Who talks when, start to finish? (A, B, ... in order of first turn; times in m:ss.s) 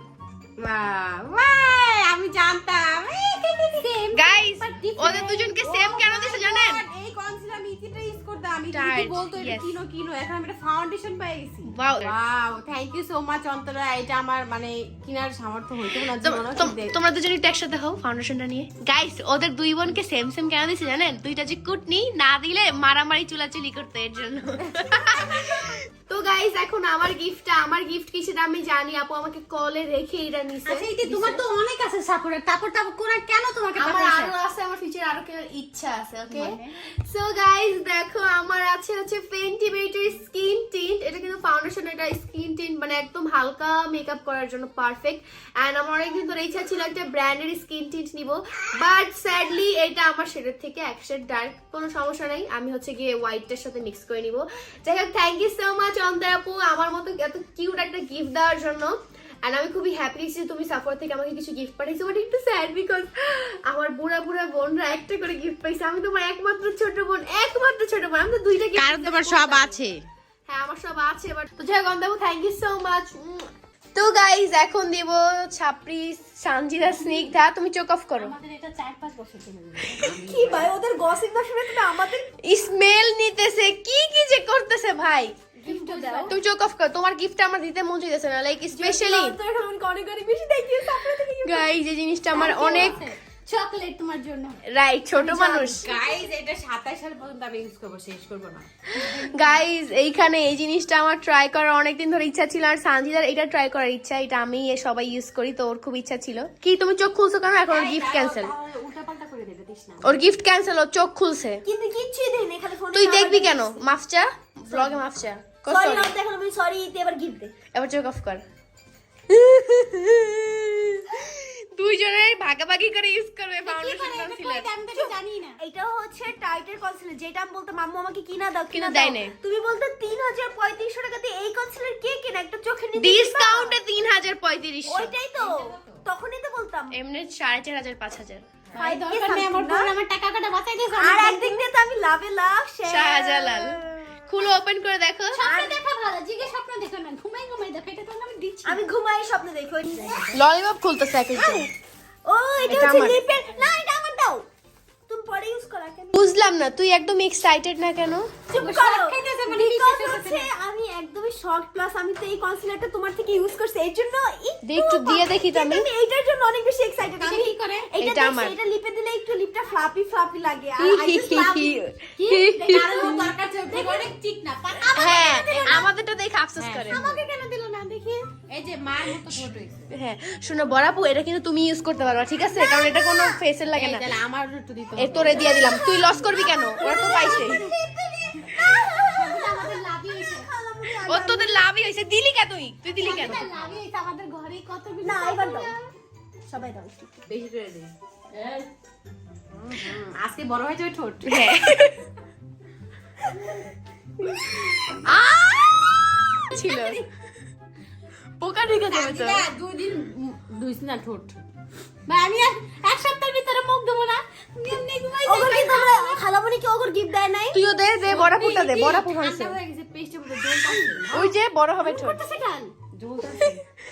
0:00.6-0:03.9 A
0:03.7-0:05.5 B
0:04.1-0:06.8 C
0:05.5-0:16.9 A
0:08.7-0:09.8 C
0:11.7-0:12.1 C
0:16.0-0:31.4 C
0:24.8-0:25.5 A
0:30.6-0:34.3 B
0:33.8-1:09.8 C
0:36.3-0:36.7 B
1:08.7-1:10.0 A
1:10.5-1:18.3 C
1:16.8-1:17.3 B
1:18.2-1:20.1 B
1:20.0-1:20.7 A
1:20.1-1:22.3 D
1:22.4-1:25.4 C
1:25.6-1:26.3 D
1:25.6-1:26.3 B
1:26.3-1:29.4 C
1:28.7-1:31.7 D
1:31.4-1:33.0 C
1:32.3-1:34.6 B
1:32.3-1:32.8 D
1:34.7-1:35.9 C
1:35.2-1:39.5 A
1:39.0-1:48.5 C
1:47.7-1:50.2 A
1:50.0-1:51.6 C
1:51.6-1:53.8 D
1:52.9-1:56.1 C
1:55.7-1:57.5 D
1:57.7-1:58.4 C
1:59.3-2:04.7 C
2:03.6-2:05.6 B
2:05.6-2:13.8 D
2:08.7-2:09.3 C
2:13.0-2:15.2 C
2:14.8-2:16.9 D
2:15.3-2:16.0 A
2:16.9-2:18.4 C
2:18.8-2:21.6 B
2:18.8-2:19.9 D
2:20.9-2:24.2 D
2:22.9-2:25.4 C
2:25.3-2:25.8 D
2:25.3-2:28.8 B
2:28.6-2:30.4 D
2:30.3-2:31.7 C
2:31.3-2:31.7 D
2:32.2-2:34.4 D
2:32.6-2:33.2 C
2:35.1-2:36.1 D
2:36.1-2:38.3 C
2:38.5-2:51.8 D
2:38.6-2:40.5 B
2:44.6-2:45.9 C
2:47.2-2:47.9 B
2:48.0-2:48.6 C
2:50.8-2:53.3 C
2:52.2-2:55.9 B
2:52.4-2:54.1 A
2:53.7-2:54.1 D
2:54.7-2:55.8 A
2:54.9-2:57.0 C
2:56.6-2:57.0 A
2:56.9-2:58.3 B
2:58.5-2:59.9 A
2:59.2-3:04.1 C
3:02.4-3:03.4 B
3:03.7-3:05.6 A
3:05.0-3:07.6 C
3:05.2-3:10.5 B
3:06.5-3:11.6 D
3:11.0-3:13.5 C
3:12.9-3:15.9 B
3:15.0-3:15.8 D
3:16.5-3:17.2 D
3:17.3-3:17.9 A
3:19.8-3:21.4 A
3:21.2-3:22.0 C
3:24.3-3:27.0 C
3:28.4-3:29.4 C
3:28.7-3:31.4 A
3:32.1-3:36.2 B
3:35.2-3:37.6 D
3:37.5-3:39.6 C
3:38.0-3:41.3 A
3:41.1-3:42.2 C
3:41.8-3:42.8 B
3:42.9-3:43.6 A